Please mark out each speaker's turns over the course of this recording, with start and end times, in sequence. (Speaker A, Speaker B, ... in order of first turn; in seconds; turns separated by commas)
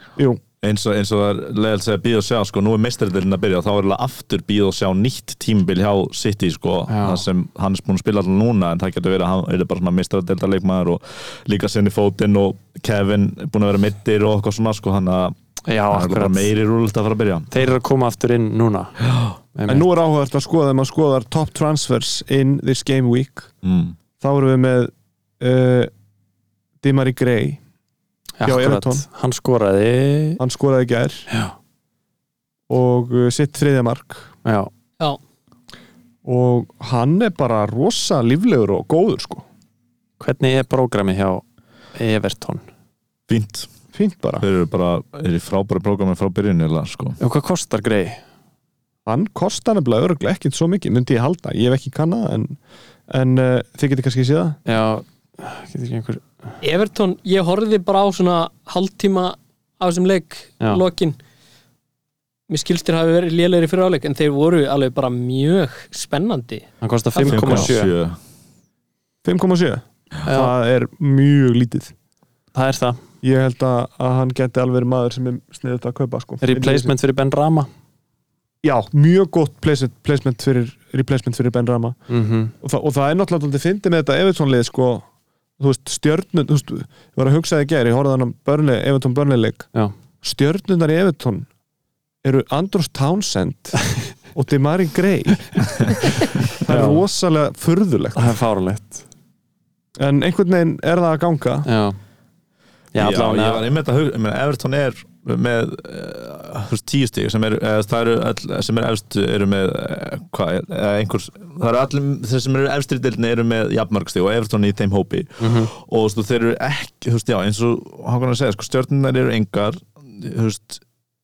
Speaker A: 0.6-15.3, Speaker B: 6.9-7.2, Speaker B: 15.7-16.5, Speaker A: 15.9-17.6, Speaker B: 17.5-19.0, Speaker A: 19.0-19.4, Speaker B: 19.6-19.9, Speaker C: 19.7-23.5, Speaker A: 23.6-24.0, Speaker C: 24.2-25.9, Speaker C: 26.8-27.6, Speaker B: 28.4-30.4, Speaker C: 28.4-29.1, Speaker C: 30.4-31.3, Speaker B: 31.3-31.6, Speaker C: 32.7-34.3, Speaker B: 34.5-34.7, Speaker C: 36.2-39.5, Speaker B: 40.2-41.4, Speaker B: 42.0-42.6, Speaker A: 43.3-43.7, Speaker C: 43.9-44.4, Speaker A: 44.4-47.2, Speaker B: 47.2-48.2, Speaker C: 49.1-52.6, Speaker C: 53.1-54.6, Speaker B: 54.7-56.2, Speaker D: 56.6-61.2, Speaker D: 62.5-66.7, Speaker B: 66.8-67.9, Speaker A: 67.2-68.2, Speaker C: 67.2-67.7, Speaker C: 69.2-71.9, Speaker B: 70.3-70.5, Speaker B: 72.5-73.0, Speaker C: 73.2-76.9, Speaker B: 76.4-77.7, Speaker C: 78.6-82.0, Speaker B: 82.1-82.5, Speaker C: 82.6-85.1, Speaker C: 85.6-89.7, Speaker C: 90.2-91.5, Speaker C: 92.2-98.3, Speaker B: 96.6-97.0, Speaker B: 98.2-99.0, Speaker C: 100.0-101.7, Speaker B: 101.7-102.0, Speaker B: 102.9-103.7, Speaker A: 103.0-120.8, Speaker B: 115.4-115.7